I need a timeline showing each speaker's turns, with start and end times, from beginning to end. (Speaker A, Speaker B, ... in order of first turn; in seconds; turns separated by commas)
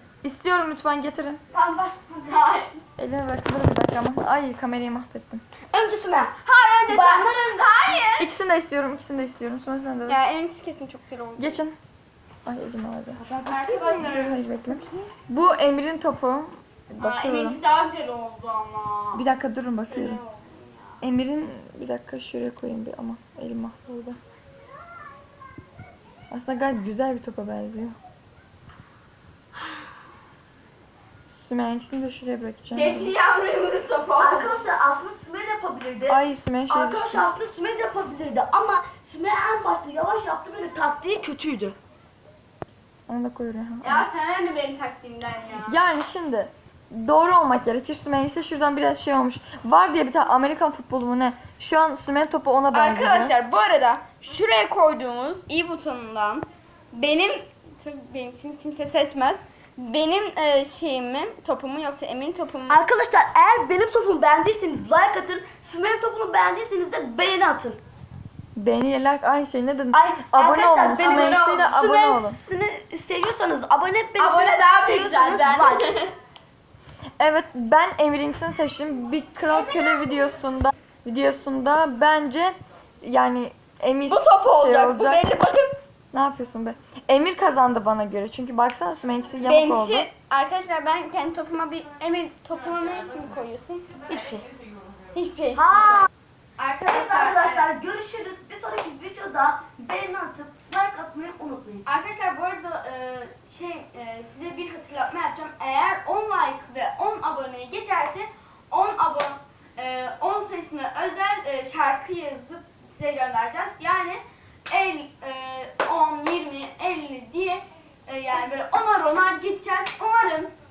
Speaker A: 0.2-1.4, Speaker B: 1.5-2.8, Speaker A: 3.0-5.4, Speaker C: 5.7-7.8, Speaker B: 6.4-8.3, Speaker A: 8.2-10.2, Speaker B: 10.1-11.6, Speaker A: 11.4-11.8, Speaker A: 12.4-17.6, Speaker C: 13.2-13.7, Speaker B: 13.4-15.1, Speaker B: 17.0-19.3, Speaker A: 19.1-20.2, Speaker B: 19.9-21.0, Speaker A: 21.0-24.2, Speaker A: 26.3-28.0, Speaker A: 31.3-33.1, Speaker B: 32.7-34.6, Speaker C: 34.2-41.8, Speaker A: 36.1-37.3, Speaker A: 43.1-44.1, Speaker B: 43.8-45.8, Speaker A: 45.6-53.4, Speaker B: 52.7-62.8, Speaker C: 62.7-67.8, Speaker A: 68.6-72.4, Speaker C: 69.9-75.9, Speaker B: 70.9-71.6, Speaker B: 74.2-76.1, Speaker A: 77.2-85.3, Speaker B: 79.5-80.0, Speaker B: 84.1-85.8, Speaker A: 86.1-90.1, Speaker B: 89.4-93.9, Speaker C: 94.1-94.5, Speaker B: 95.1-97.7, Speaker C: 96.9-101.8, Speaker B: 101.8-120.5